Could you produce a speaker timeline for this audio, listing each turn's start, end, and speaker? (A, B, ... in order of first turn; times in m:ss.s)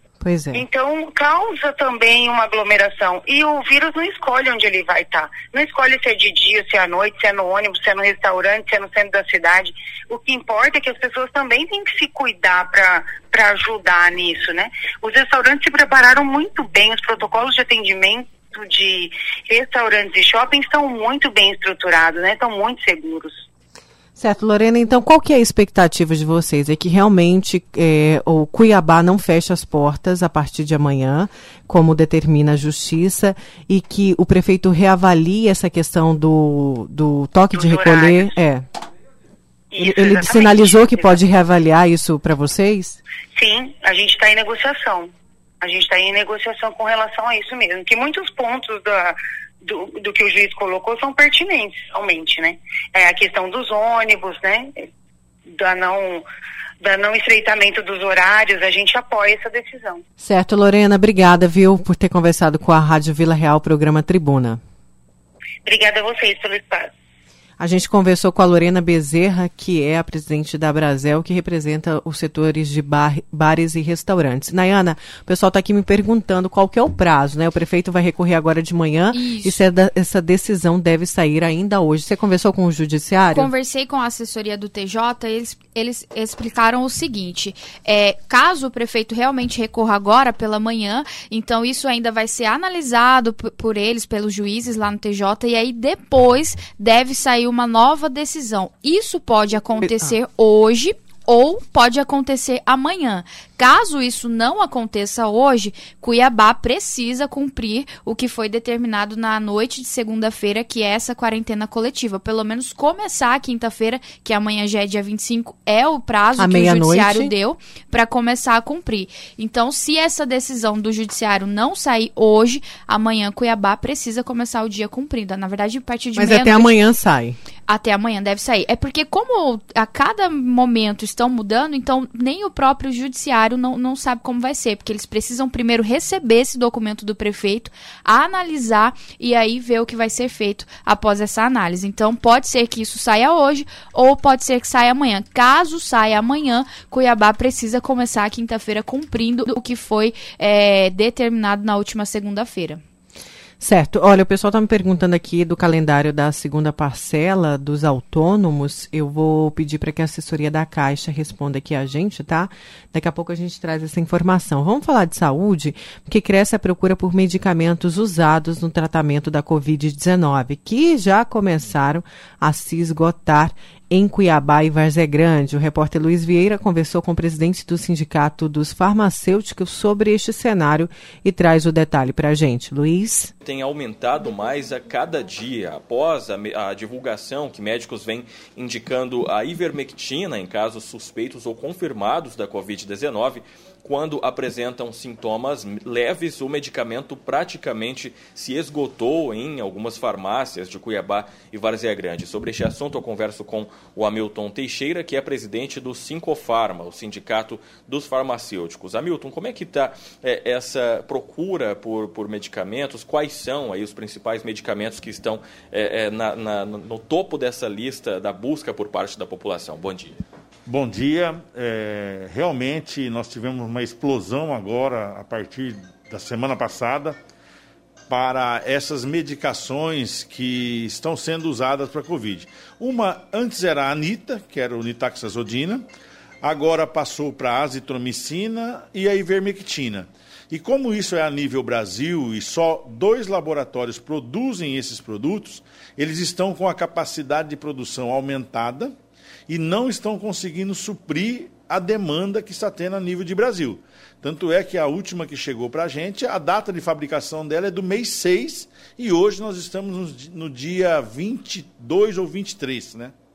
0:00.2-0:00.6 A
0:00.5-0:23.4 B
0:24.2-0:38.7 A
0:37.5-0:38.3 B
0:39.7-0:41.2 B
0:39.8-0:43.0 A
0:43.4-0:54.9 B
0:55.5-0:56.2 B
0:56.8-1:00.0 B
1:00.2-1:04.6 A
1:05.6-1:06.9 B
1:07.6-1:23.5 A
1:19.1-1:19.6 C
1:23.3-2:06.8 C
1:39.8-1:40.2 A
1:56.4-1:57.3 A
2:06.2-2:07.4 A
2:07.7-2:32.8 C
2:33.6-3:03.3 A
3:03.4-3:40.2 D
3:40.7-3:47.2 E
3:48.1-3:55.8 E
3:56.4-4:09.0 E
4:09.5-4:23.1 E